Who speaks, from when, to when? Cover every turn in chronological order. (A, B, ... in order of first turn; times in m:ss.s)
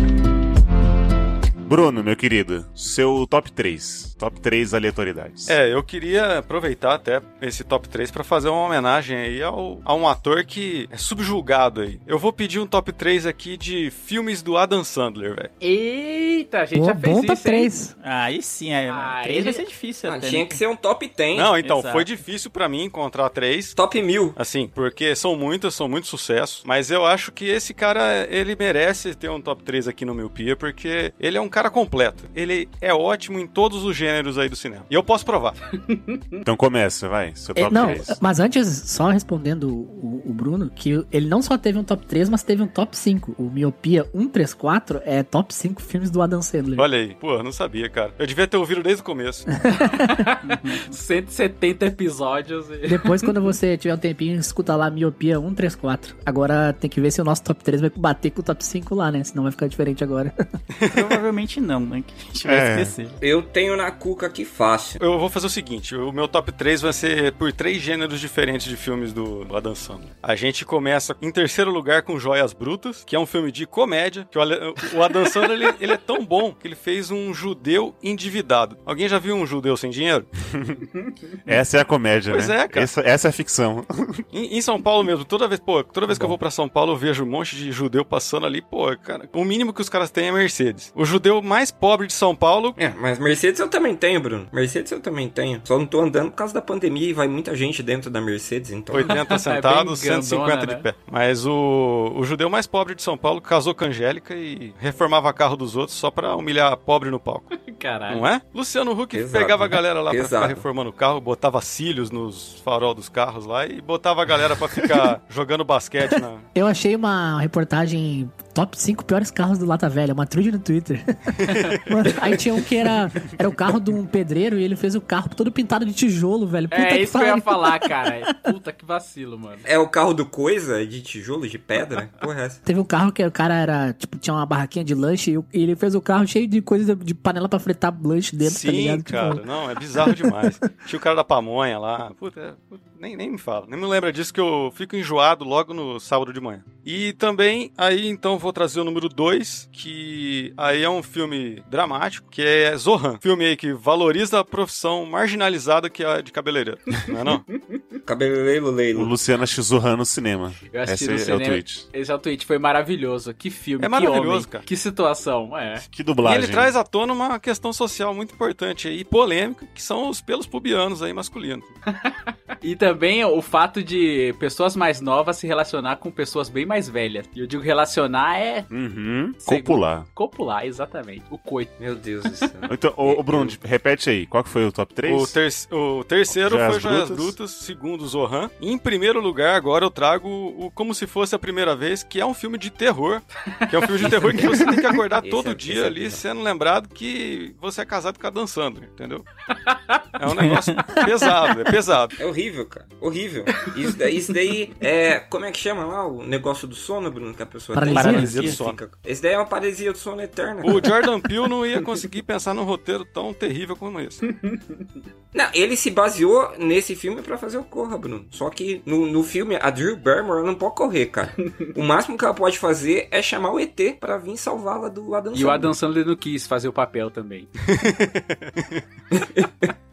0:01.7-0:05.6 A
0:05.5-0:15.5 B
0:15.6-0:17.7 C
0:16.7-0:17.9 D
0:18.0-0:20.6 E
0:18.9-0:19.6 C
0:20.1-0:21.5 F
0:21.3-0:23.8 B
0:21.6-0:22.1 E
0:23.8-0:24.4 F
0:24.4-0:35.6 B
0:35.8-0:36.4 C
0:36.4-0:38.2 A
0:37.6-0:46.9 D
0:46.8-0:49.4 B
0:49.6-0:50.2 D
0:49.8-0:53.3 C
0:50.5-0:50.9 E
0:52.9-1:00.3 D
1:00.7-1:01.1 B
1:00.9-1:03.2 E
1:02.4-1:02.9 A
1:03.2-1:05.0 F
1:05.0-1:20.3 B
1:20.6-1:20.8 A
1:21.5-1:24.2 A
1:22.3-1:22.9 B
1:24.3-1:32.8 B
1:32.8-1:39.2 F
1:38.9-1:47.5 B
1:39.0-1:40.8 C
1:47.5-1:48.2 C
1:48.1-1:56.5 B
1:49.1-1:50.6 F
1:56.5-2:08.5 D
2:01.4-2:01.7 B
2:06.7-2:09.6 C
2:09.6-2:12.6 F
2:12.6-2:20.8 D
2:18.4-2:37.4 B
2:38.0-2:39.1 F
2:38.9-2:41.8 A
2:40.7-2:45.8 C
2:43.8-2:44.6 B
2:45.8-2:46.8 A
2:46.2-2:51.7 B
2:51.9-2:58.7 C
2:58.7-3:00.1 A
2:59.4-3:02.5 C
3:01.8-3:03.5 F
3:02.7-3:05.4 A
3:05.1-3:19.2 B
3:06.3-3:07.4 A
3:13.6-3:14.6 C
3:15.2-3:16.2 F
3:19.5-3:20.0 C
3:20.2-3:22.2 B
3:20.4-3:20.8 E
3:22.2-3:30.9 F
3:27.7-3:28.5 D
3:27.9-3:28.6 E
3:28.1-3:28.8 B
3:30.6-3:34.2 B
3:34.3-3:35.0 C
3:35.3-3:45.8 F
3:45.3-3:47.5 C
3:47.7-3:48.8 B
3:49.1-3:49.7 F